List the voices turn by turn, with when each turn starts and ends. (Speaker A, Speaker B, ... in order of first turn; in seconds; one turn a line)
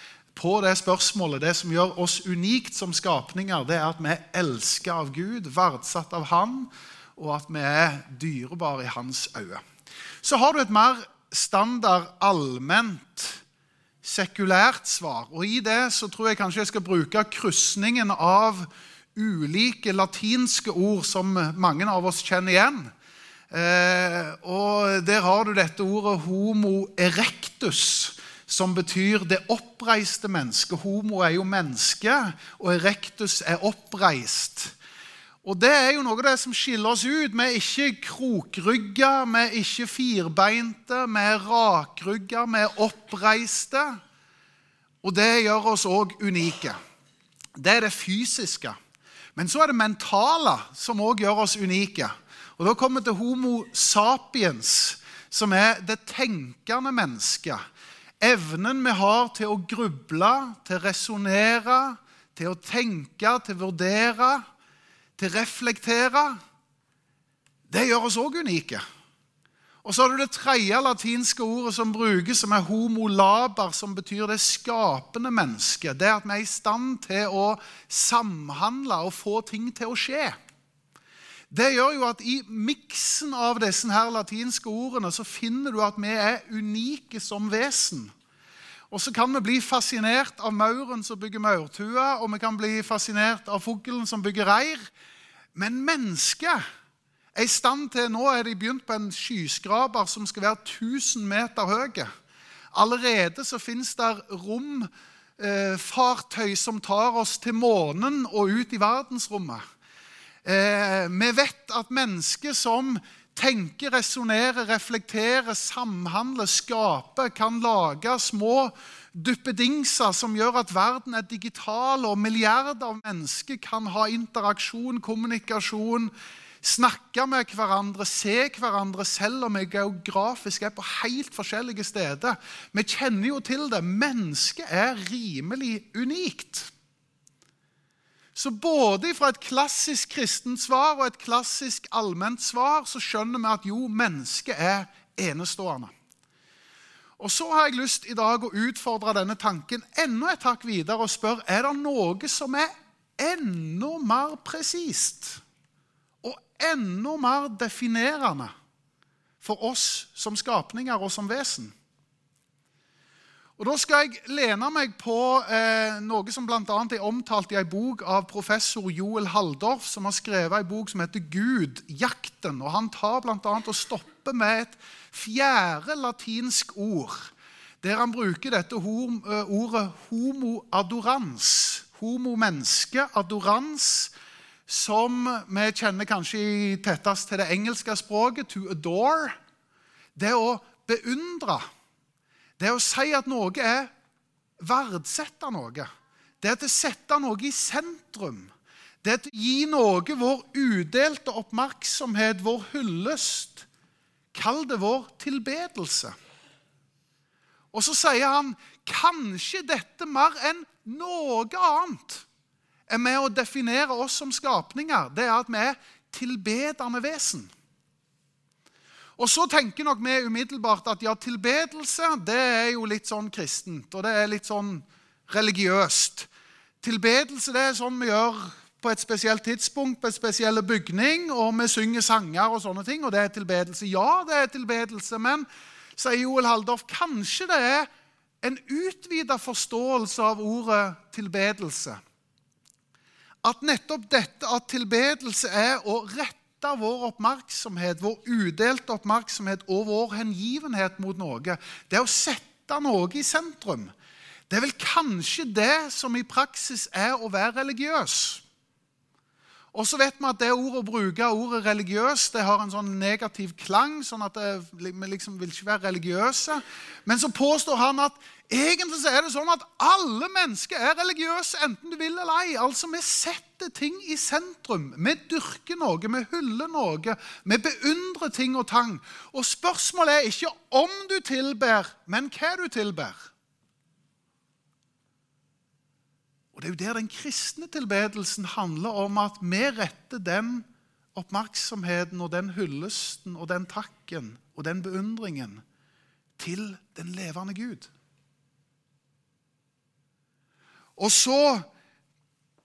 Speaker A: 0.3-9.6
Speaker A: 10.2-13.4
Speaker A: 14.0-22.9
Speaker A: 23.5-34.7
Speaker A: 35.4-44.0
Speaker A: 45.0-46.8
Speaker A: 47.6-48.8
Speaker A: 49.4-57.6
Speaker A: 58.2-64.4
Speaker A: 65.2-66.4
Speaker A: 67.7-68.8
Speaker A: 69.8-80.4
Speaker A: 81.5-88.1
Speaker A: 88.9-94.9
Speaker A: 95.5-96.6
Speaker A: 97.3-102.1
Speaker A: 102.7-109.6
Speaker A: 110.4-136.7
Speaker A: 138.3-145.9
Speaker A: 147.2-155.4
Speaker A: 156.2-158.5
Speaker A: 159.4-161.7
Speaker A: 163.6-184.1
Speaker A: 184.7-189.4
Speaker A: 190.1-191.7
Speaker A: 192.6-193.9
Speaker A: 194.6-195.9
Speaker A: 196.4-203.7
Speaker A: 204.3-206.1
Speaker A: 207.7-212.2
Speaker A: 212.9-217.5
Speaker A: 219.2-226.3
Speaker A: 226.8-235.4
Speaker A: 236.0-237.9
Speaker A: 238.4-242.0
Speaker A: 243.4-253.9
Speaker A: 254.5-258.4
Speaker A: 259.7-283.3
Speaker A: 286.5-295.6
Speaker A: 296.4-297.9
Speaker A: 301.0-301.7